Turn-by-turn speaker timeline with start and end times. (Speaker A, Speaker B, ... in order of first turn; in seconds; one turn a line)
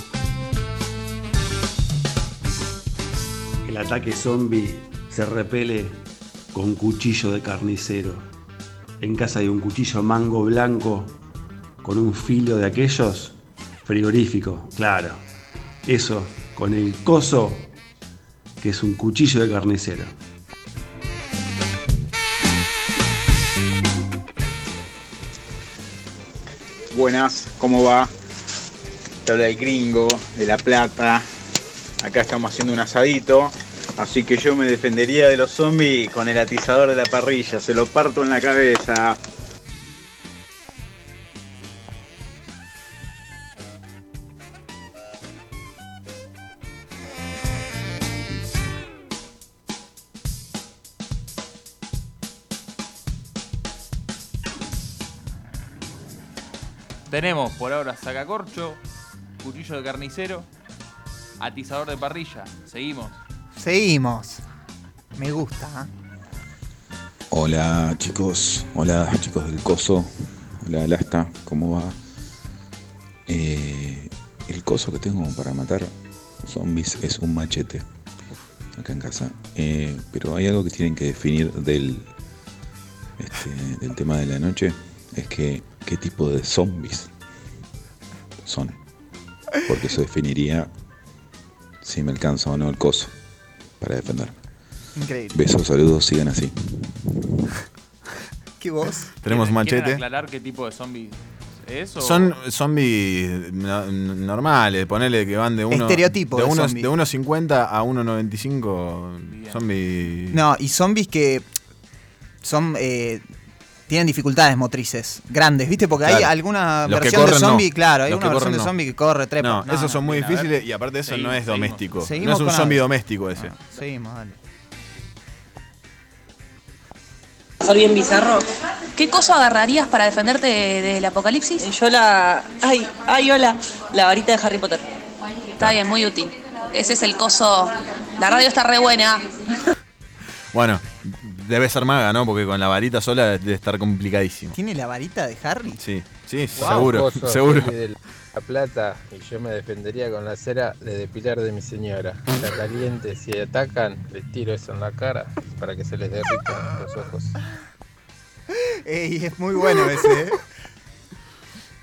Speaker A: 3.7-5.9
Speaker A: 6.6-8.2
Speaker A: 9.0-11.1
Speaker A: 11.8-13.3
Speaker A: 13.9-15.2
Speaker A: 15.9-17.6
Speaker A: 18.6-20.1
Speaker B: 26.9-28.1
Speaker B: 29.3-31.2
Speaker B: 32.0-39.2
Speaker C: 57.1-58.8
Speaker C: 59.4-60.5
Speaker C: 61.4-63.2
Speaker D: 63.6-64.4
Speaker D: 65.2-65.9
Speaker E: 67.3-72.0
Speaker E: 73.3-77.8
Speaker E: 78.7-82.1
Speaker E: 83.2-87.1
Speaker E: 88.4-88.8
Speaker E: 89.7-90.7
Speaker E: 91.8-93.1
Speaker E: 93.8-94.4
Speaker D: 95.0-95.4
Speaker E: 95.3-97.2
Speaker D: 98.6-99.1
Speaker F: 99.2-100.0
Speaker C: 99.3-102.3
Speaker F: 102.0-110.4
Speaker D: 105.7-106.9
Speaker C: 109.3-109.6
Speaker D: 110.3-111.5
Speaker D: 112.4-113.2
Speaker D: 113.9-120.0
Speaker F: 116.0-116.3
Speaker F: 116.8-118.8
Speaker F: 119.4-123.5
Speaker C: 120.0-121.8
Speaker D: 122.0-124.4
Speaker G: 127.7-128.4
Speaker G: 128.9-134.8
Speaker G: 135.6-139.4
Speaker F: 140.5-144.6
Speaker D: 144.5-145.8
Speaker F: 145.8-147.7
Speaker H: 146.5-157.3
Speaker D: 158.9-160.4